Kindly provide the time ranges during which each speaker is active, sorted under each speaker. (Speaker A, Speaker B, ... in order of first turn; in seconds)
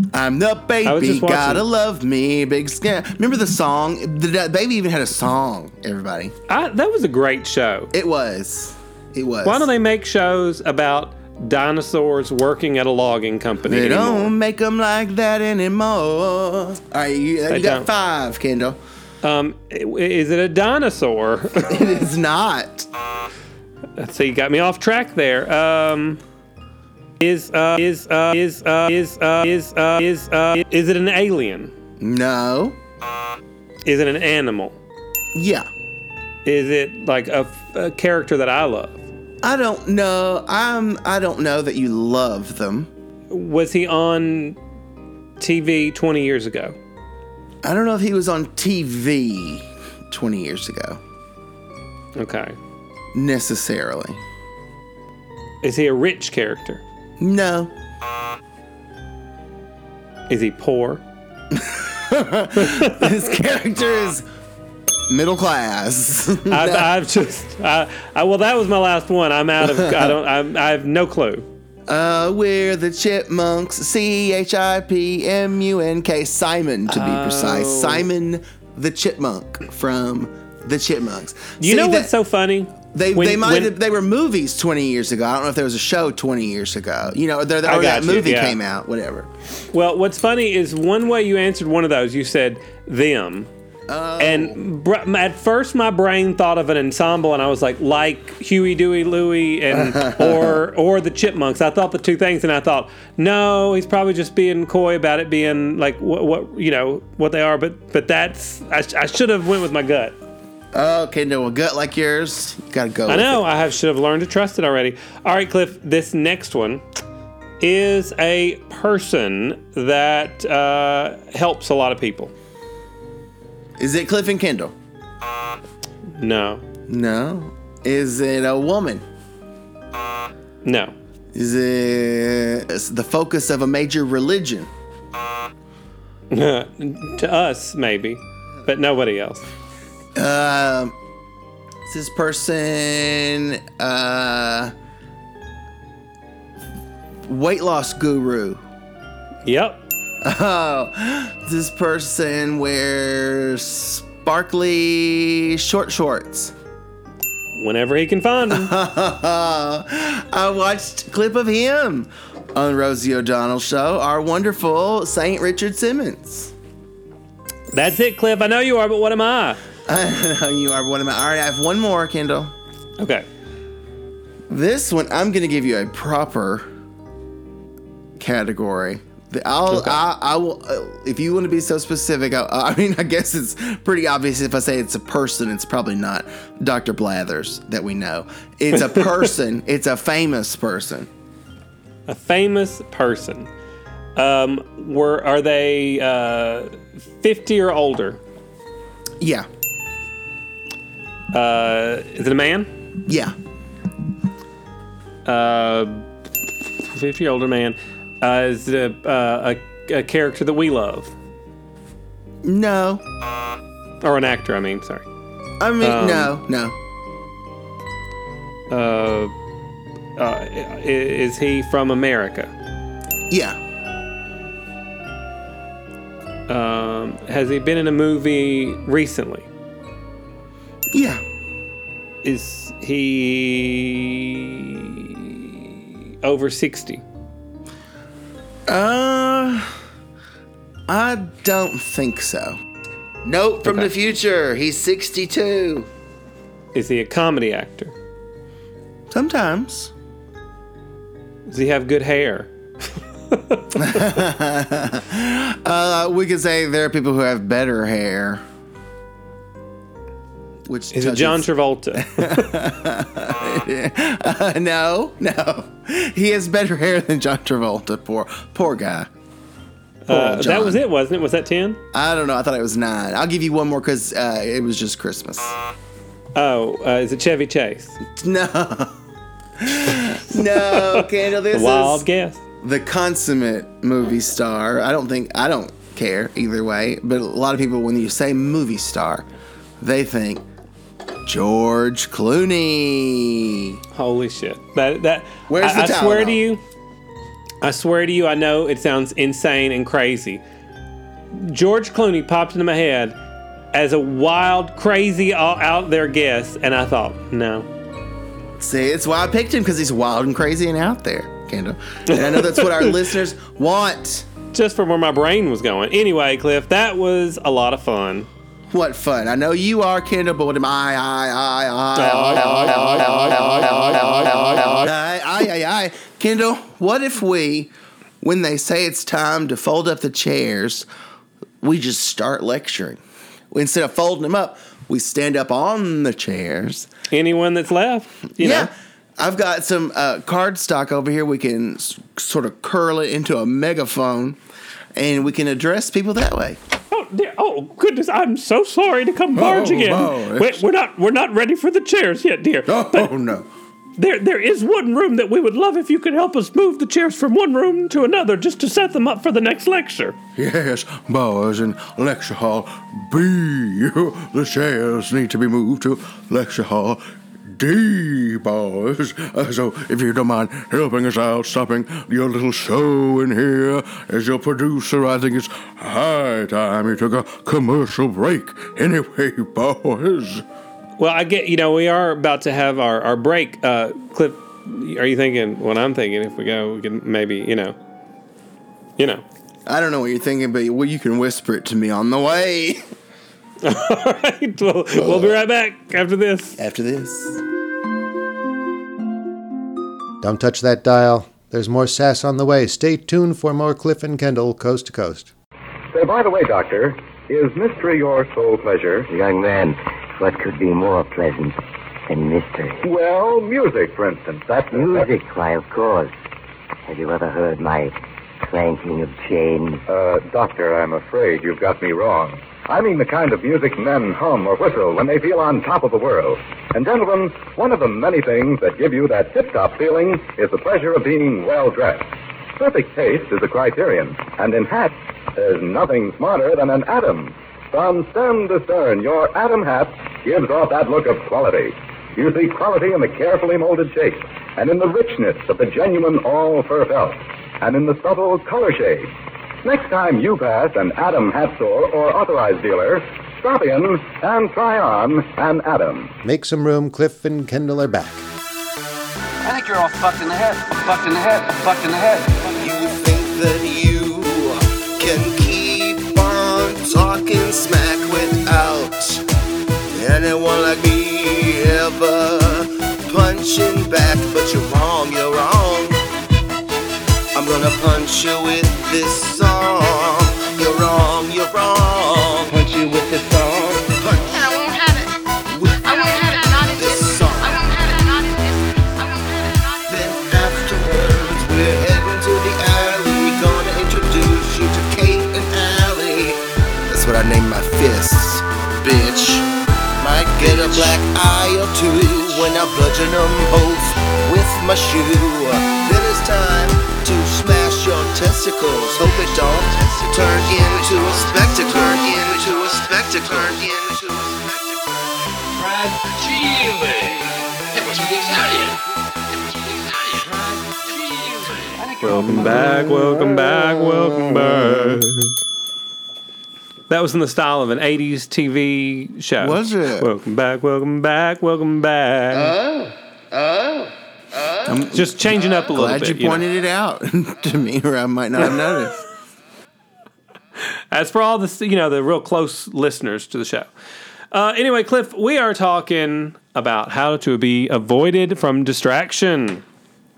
Speaker A: 0.1-6.3, 7.9-9.7, 13.7-18.8, 21.7-22.9, 32.0-32.8, 35.3-35.7, 39.4-42.9, 47.6-51.0, 53.1-54.2, 57.2-57.7, 61.5-64.2, 65.1-66.9, 69.8-70.1, 71.9-82.1, 82.9-89.3, 93.9-94.6, 99.7-100.6, 110.7-113.4, 123.8-124.7, 126.9-129.0, 131.3-134.7, 140.2-140.9, 141.9-144.7, 147.3-148.6, 150.2-156.5, 158.5-166.5, 169.9-172.5, 174.5-176.7, 178.2-191.1, 199.2-199.5, 203.1-203.3, 212.4-213.0, 215.6-216.8, 223.3-223.6, 230.9-231.2, 238.7-239.7, 240.9-242.6, 243.2-245.9, 249.1-249.9, 253.7-258.4, 260.7-269.1, 270.1-270.8, 271.9-275.5, 278.1-278.9, 279.6-282.0, 282.6-289.2, 289.8-290.4, 291.2-293.8, 295.5-296.4, 308.6-314.2, 318.7-327.7, 328.2-330.9, 331.6-333.0, 333.5-336.9, 338.4-344.4, 344.9-346.6, 389.6-392.8, 396.6-397.4, 462.6-469.2, 469.9-476.0, 477.3-484.4, 485.5-485.9, 486.7-487.6, 489.9-499.4, 500.0-514.8, 529.4-530.1, 532.3-539.0
Speaker B: 0.8-1.6, 6.5-7.9, 9.4-14.3, 17.5-17.9, 19.2-21.9, 24.0-26.2, 27.2-31.7, 33.8-34.7, 36.4-39.0, 43.3-44.6, 45.4-46.8, 52.2-52.5, 55.6-56.8, 60.3-61.0, 62.6-63.2, 66.5-71.4, 76.9-78.1, 81.6-83.7, 87.7-88.6, 89.7-93.5, 94.2-110.1, 113.1-116.8, 117.6-122.3, 126.2-126.6, 130.6-130.9, 136.3-139.4, 149.4-149.8, 157.6-158.7, 167.7-169.6, 173.0-173.2, 192.1-193.5, 194.2-198.2, 201.3-202.7, 205.2-206.0, 206.9-211.1, 214.0-215.0, 215.8-216.3, 218.7-219.3, 220.2-222.5, 226.5-229.5, 232.2-237.0, 246.7-247.9, 251.5-252.5, 253.3-254.0, 260.9-262.5, 270.1-271.8, 276.3-278.0, 279.9-282.4, 293.9-296.6, 297.6-300.4, 301.3-303.1, 303.7-307.7, 312.1-312.9, 314.5-318.3, 321.9-324.9, 337.1-338.7, 346.9-353.1, 354.0-360.1, 381.0-387.8, 389.0-389.2, 393.6-396.6, 522.0-525.3, 526.9-532.5, 534.9-536.4, 540.9-543.7, 544.3-549.6
Speaker C: 349.3-350.6, 352.7-353.4, 360.4-380.4
Speaker D: 400.2-405.3, 456.2-458.2
Speaker E: 405.9-409.1, 412.8-415.1, 419.9-449.1, 449.6-456.1
Speaker F: 409.1-412.8, 414.7-416.1, 416.9-419.8
Speaker G: 459.4-462.7, 515.8-517.1, 517.8-518.5, 521.5-522.7
Speaker H: 484.3-485.1, 485.8-489.8